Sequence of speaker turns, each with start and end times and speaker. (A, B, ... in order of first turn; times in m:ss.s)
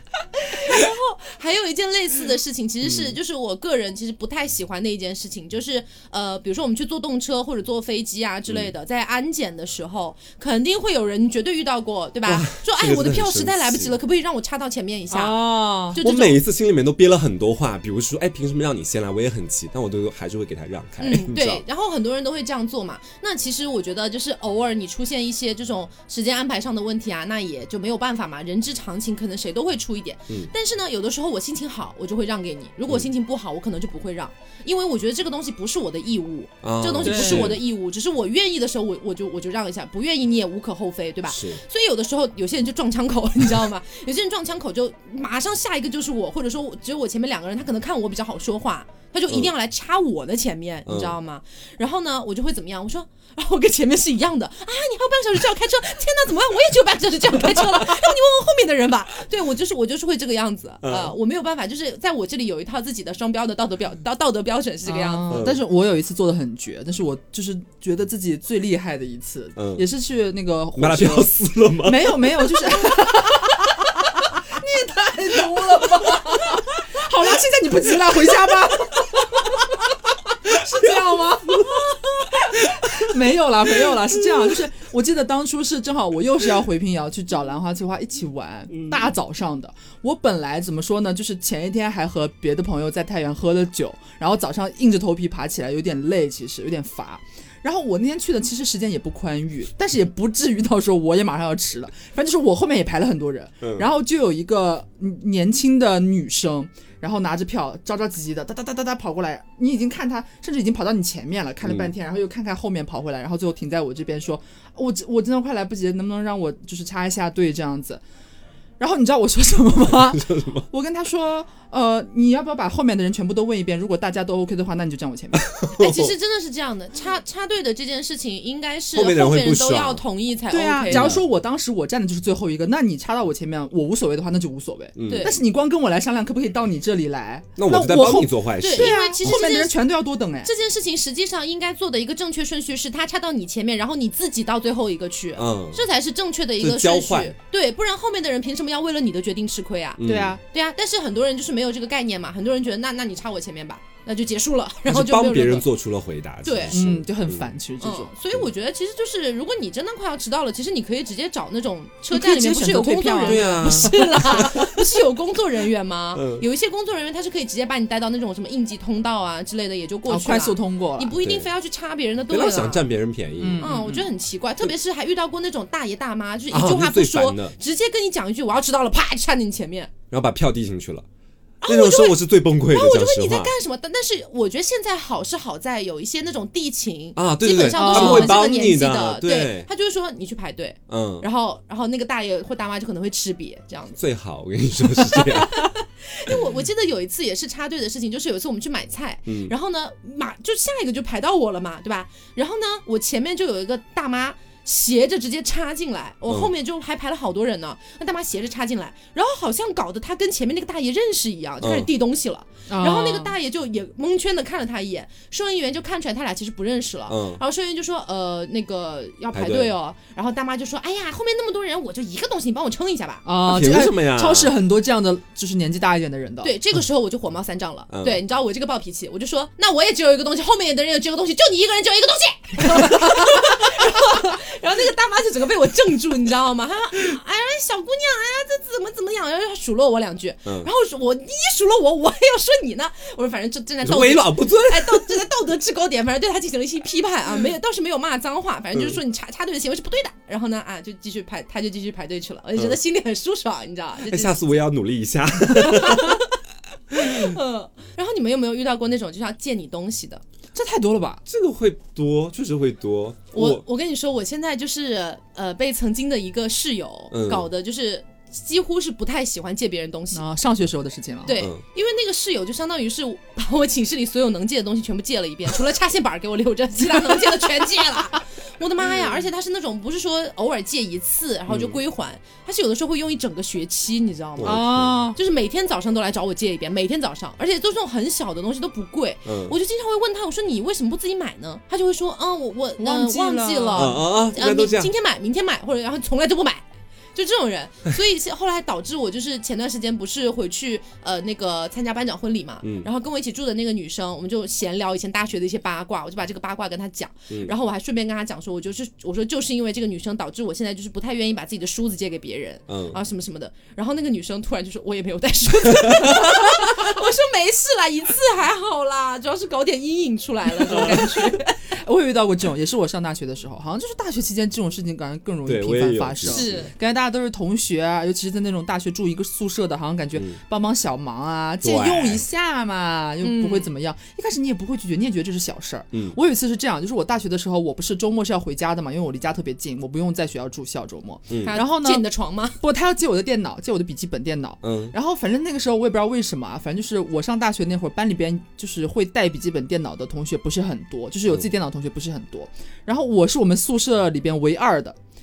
0:00.6-0:15.4 A
0:02.8-0:03.2 B
0:12.3-0:13.9 B
0:15.1-0:16.0 C
0:15.9-0:16.4 A
0:16.0-0:21.6 B
0:21.0-1:05.4 A
0:36.6-0:37.6 B
0:37.0-0:37.6 C
0:41.3-0:41.6 B
0:50.9-0:51.1 B
1:00.8-1:01.1 B
1:04.9-1:19.7 C
1:05.3-1:05.6 B
1:09.6-1:09.9 B
1:10.8-1:12.3 B
1:20.4-1:58.0 C
1:20.8-1:21.9 B
1:22.5-1:23.1 B
1:43.6-1:43.9 B
1:51.6-1:51.9 B
1:58.8-2:05.5 C
1:59.9-2:00.7 B
2:05.5-2:06.1 B
2:05.8-2:11.2 A
2:08.9-2:10.0 B
2:10.5-2:20.5 C
2:10.9-2:11.2 B
2:15.0-2:15.3 B
2:15.1-2:15.4 A
2:17.6-2:19.4 B
2:18.6-2:19.7 A
2:20.4-2:35.7 A
2:25.4-2:25.8 B
2:26.6-2:27.4 B
2:30.0-2:30.4 B
2:30.0-2:30.4 C
2:34.9-2:37.5 B
2:36.4-2:36.8 A
2:36.7-2:38.1 C
2:37.8-2:52.9 A
2:42.1-2:44.6 C
2:43.2-2:43.9 B
2:46.1-2:46.4 B
2:50.1-2:51.1 C
2:51.2-2:51.5 B
2:52.3-2:53.7 B
2:53.4-2:54.1 C
2:53.6-2:59.9 A
2:56.5-2:57.5 B
3:00.1-3:01.0 B
3:01.6-3:14.0 A
3:01.7-3:03.5 B
3:07.2-3:09.7 B
3:07.7-3:08.4 C
3:10.9-3:11.3 B
3:14.0-3:15.7 B
3:15.1-3:43.3 A
3:19.3-3:19.5 B
3:31.6-3:31.9 B
3:32.7-3:33.3 C
3:37.1-3:37.4 B
3:39.3-3:39.7 B
3:43.2-3:46.6 C
3:43.4-3:44.5 B
3:46.4-4:14.6 A
3:47.9-3:48.2 B
4:03.8-4:05.1 B
4:08.7-4:09.0 B
4:14.1-4:16.2 B
4:15.6-4:16.2 A
4:16.9-4:17.4 B
4:17.0-4:20.2 A
4:20.6-4:21.2 C
4:21.3-4:23.6 B
4:23.3-4:30.2 A
4:27.1-4:27.4 B
4:30.1-4:31.4 C
4:31.3-4:56.6 A
4:38.9-4:39.2 B
4:41.5-4:41.8 B
4:44.4-4:45.0 B
4:44.4-4:45.2 C
4:49.2-4:49.6 B
4:52.8-4:54.0 C
4:53.8-4:54.9 B
4:57.1-5:21.6 A
5:02.6-5:02.9 B
5:12.7-5:13.0 B
5:20.7-5:21.0 B
5:21.7-5:42.1 C
5:25.4-5:26.7 B
5:26.3-5:26.7 A
5:31.6-5:32.2 B
5:33.2-5:33.7 A
5:41.3-5:41.6 B
5:41.4-5:42.6 A
5:42.6-5:55.0 C
5:44.6-5:45.0 B